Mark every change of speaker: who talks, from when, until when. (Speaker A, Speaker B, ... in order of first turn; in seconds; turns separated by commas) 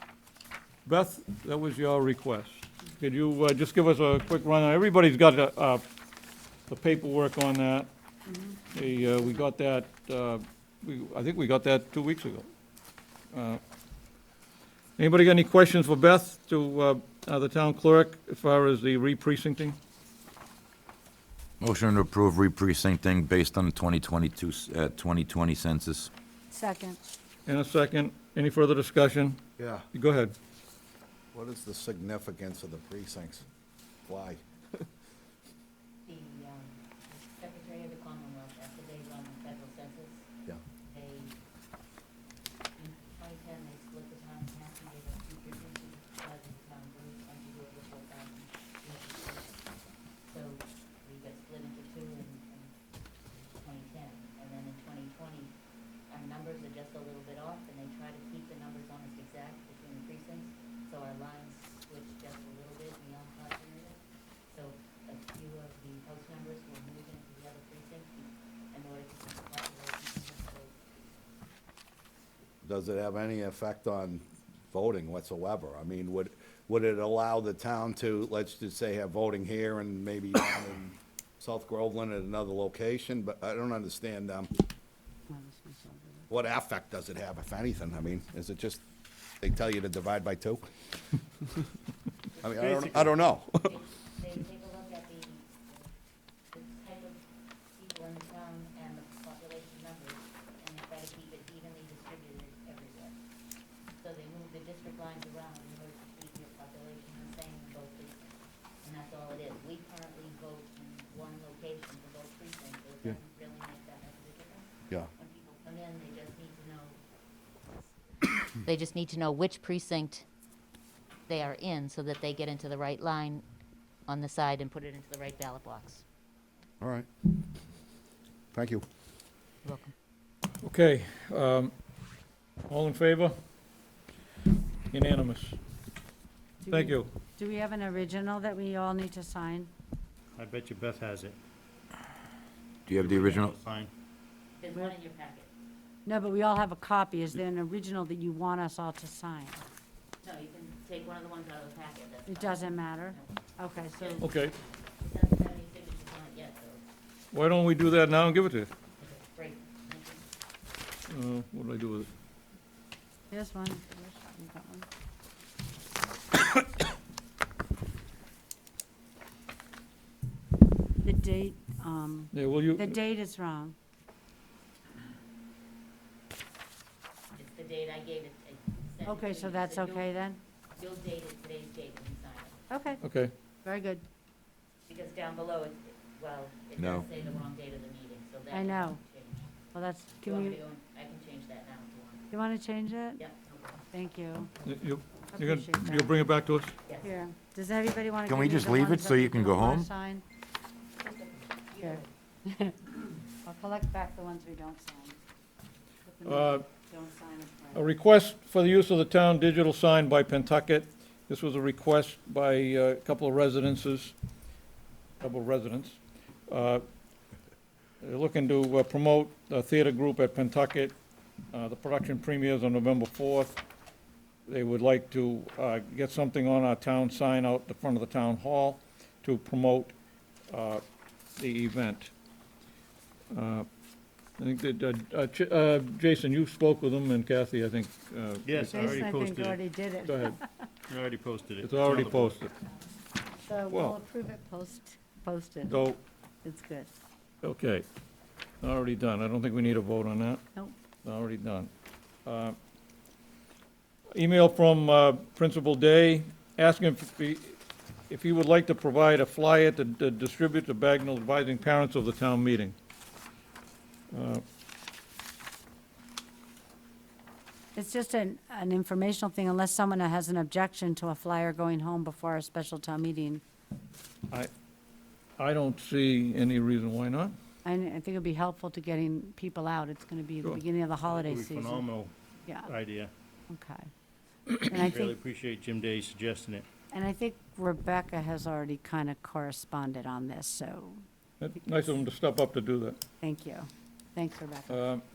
Speaker A: 0.8-5.8, Speaker A: 6.7-7.9, Speaker B: 8.3-8.6, Speaker A: 8.7-12.5, Speaker A: 13.3-13.6, Speaker A: 15.0-19.8, Speaker C: 21.6-26.1, Speaker B: 26.5-27.0, Speaker A: 27.4-29.4, Speaker D: 29.6-29.9, Speaker A: 29.9-30.3, Speaker D: 31.3-33.4, Speaker D: 34.1-34.8, Speaker E: 36.0-40.3, Speaker E: 40.9-41.3, Speaker E: 42.8-52.7, Speaker E: 53.5-55.5, Speaker E: 56.1-71.4, Speaker D: 72.6-84.5, Speaker B: 85.3-86.3, Speaker D: 86.3-88.8, Speaker D: 89.4-90.7, Speaker E: 92.3-95.9, Speaker D: 92.4-93.8, Speaker F: 92.6-93.1, Speaker E: 96.5-103.2, Speaker E: 104.0-117.0, Speaker E: 118.2-120.2, Speaker E: 121.3-123.4, Speaker E: 124.1-126.0, Speaker D: 126.8-127.1, Speaker D: 128.5-128.8, Speaker E: 129.6-129.9, Speaker A: 130.6-131.7, Speaker A: 132.7-133.4, Speaker A: 134.9-135.6, Speaker B: 136.6-139.7, Speaker A: 136.7-137.1, Speaker F: 140.3-141.4, Speaker C: 142.9-143.5, Speaker F: 142.9-143.9, Speaker E: 144.6-145.5, Speaker B: 146.1-149.6, Speaker E: 150.2-156.8, Speaker B: 152.3-154.2, Speaker A: 154.2-154.5, Speaker A: 157.3-158.7, Speaker E: 159.0-160.2, Speaker A: 161.1-162.1, Speaker B: 163.3-164.9, Speaker B: 171.0-173.7, Speaker A: 172.3-172.9, Speaker E: 177.3-180.1, Speaker B: 179.0-180.4, Speaker E: 180.7-182.6, Speaker B: 182.7-183.0, Speaker A: 183.0-183.3, Speaker B: 183.6-184.0, Speaker E: 184.9-189.5, Speaker C: 186.8-187.0, Speaker B: 188.5-189.0, Speaker B: 189.7-190.6, Speaker E: 190.2-192.2, Speaker B: 192.3-193.2, Speaker E: 193.2-193.8, Speaker B: 193.9-194.5, Speaker A: 194.6-196.7, Speaker B: 195.3-196.1, Speaker E: 196.8-197.1, Speaker B: 197.0-200.2, Speaker C: 198.2-199.9, Speaker E: 201.0-202.1, Speaker B: 201.8-202.9, Speaker B: 203.4-205.2, Speaker B: 206.0-207.9, Speaker A: 206.2-206.6, Speaker A: 207.7-214.2, Speaker A: 215.2-216.8, Speaker A: 218.0-220.9, Speaker A: 221.5-223.6, Speaker A: 224.5-229.9, Speaker A: 230.5-230.8, Speaker A: 231.4-232.1, Speaker A: 233.3-233.7, Speaker A: 234.4-239.0, Speaker F: 238.4-239.6, Speaker B: 238.7-240.5, Speaker A: 240.1-240.4, Speaker F: 240.9-242.4, Speaker A: 241.6-242.5, Speaker B: 243.4-245.8, Speaker A: 243.7-244.0, Speaker A: 245.7-246.0, Speaker B: 246.4-246.9, Speaker A: 247.4-247.8, Speaker A: 248.6-250.4, Speaker A: 251.0-251.7, Speaker A: 252.2-252.6, Speaker A: 254.1-257.6, Speaker A: 258.1-262.7, Speaker A: 264.1-264.4, Speaker B: 267.7-273.4, Speaker A: 275.4-277.3, Speaker B: 277.6-281.8, Speaker F: 281.0-282.1, Speaker F: 282.6-283.1, Speaker B: 283.5-283.9, Speaker B: 284.6-285.2, Speaker F: 284.9-286.7, Speaker B: 286.9-291.0, Speaker A: 291.4-293.0, Speaker B: 293.2-294.8, Speaker A: 294.7-295.0